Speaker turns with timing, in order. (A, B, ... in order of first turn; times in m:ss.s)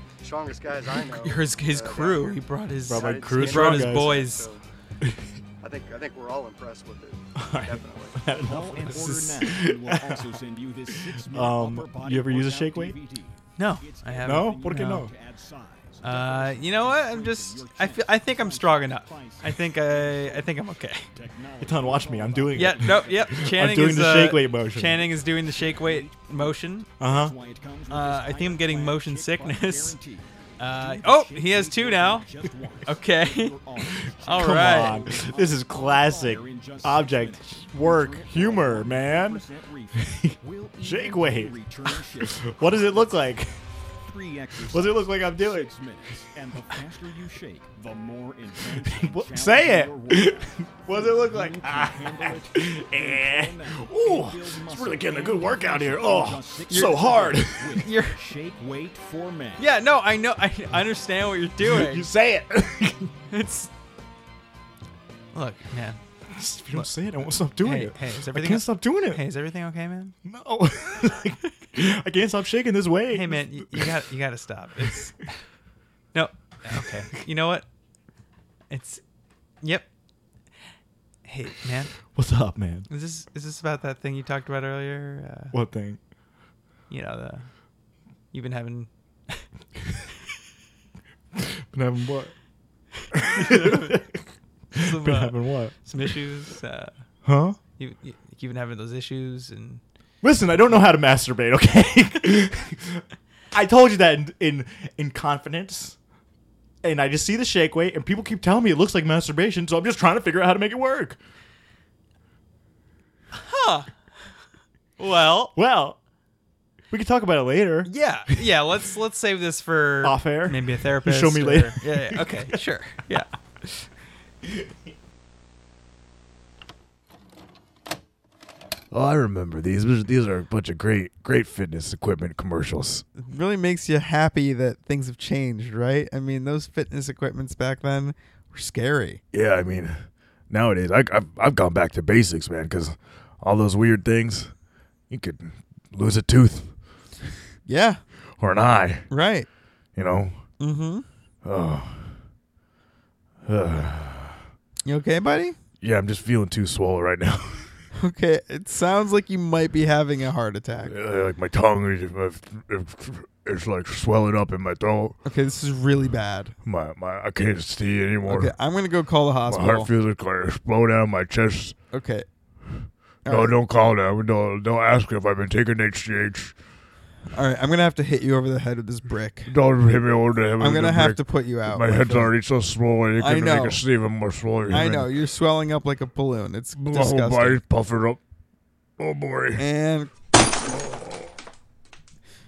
0:00.2-0:01.2 A
0:00.8-0:02.4 B
0:00.9-0:04.5 C
0:02.9-0:04.2 D
0:02.9-0:04.6 B
0:05.6-0:07.2 A
0:07.1-0:08.2 B
0:07.4-0:10.4 D
0:07.8-0:08.1 A
0:08.4-0:20.6 E
0:10.9-0:13.0 D
0:13.6-0:15.1 C
0:14.2-0:15.1 D
0:16.0-0:21.1 C
0:21.1-0:24.2 E
0:21.6-0:25.1 D
0:22.5-0:26.9 C
0:25.0-0:43.3 E
0:27.0-0:27.4 D
0:27.9-0:30.0 C
0:30.6-0:32.3 C
0:32.8-0:33.6 C
0:33.9-0:39.5 D
0:34.2-0:35.0 C
0:40.2-0:41.6 D
0:42.2-0:43.5 D
0:44.0-0:59.7 E
0:44.7-0:45.7 D
0:48.8-0:57.9 D
0:57.8-0:58.2 C
0:59.6-1:02.1 C
1:01.6-1:03.1 D
1:03.3-1:03.7 C
1:05.3-1:06.0 C
1:06.3-1:09.2 D
1:07.6-1:10.1 C
1:10.2-1:14.0 D
1:13.1-1:15.3 C
1:16.1-1:17.6 C
1:18.7-1:19.0 C
1:19.6-1:19.9 C
1:21.3-1:22.0 C
1:22.1-1:22.9 D
1:22.9-1:25.6 C
1:25.5-1:26.0 D
1:26.9-1:27.5 C
1:28.3-1:29.5 C
1:31.4-1:32.4 D
1:33.1-1:34.2 D
1:33.2-1:34.0 C
1:34.8-1:36.9 C
1:34.8-1:35.8 D
1:37.2-1:37.6 D
1:37.7-1:39.8 C
1:40.2-1:46.0 D
1:46.8-1:51.2 D
1:53.4-1:53.9 C
1:55.0-1:55.6 C
1:55.6-1:56.0 D
1:56.9-1:58.6 D
1:57.9-2:03.3 C
2:00.0-2:02.6 D
2:04.5-2:04.7 D
2:08.9-2:13.0 B
2:13.2-2:19.2 F
2:19.3-2:24.5 B
2:25.1-2:26.8 B
2:27.7-2:28.0 F
2:28.4-2:29.1 B
2:29.1-2:29.5 F
2:30.0-2:30.4 B
2:30.6-2:31.1 F
2:31.4-2:32.2 B
2:33.5-2:34.5 B
2:34.8-2:35.6 F
2:35.8-2:37.7 B
2:37.9-2:40.9 F
2:40.8-2:45.2 B
2:45.2-2:46.6 F
2:46.6-2:48.5 B
2:48.3-2:49.9 F
2:49.5-2:51.8 B
2:51.9-2:52.3 F
2:53.2-2:53.6 F
2:53.3-2:56.6 B
2:57.3-2:59.5 F
2:59.5-3:05.1 B
3:00.6-3:02.3 F
3:03.2-3:03.8 F
3:04.7-3:07.6 F
3:06.8-3:08.2 B
3:09.0-3:09.6 B
3:09.6-3:10.1 F
3:10.8-3:11.1 B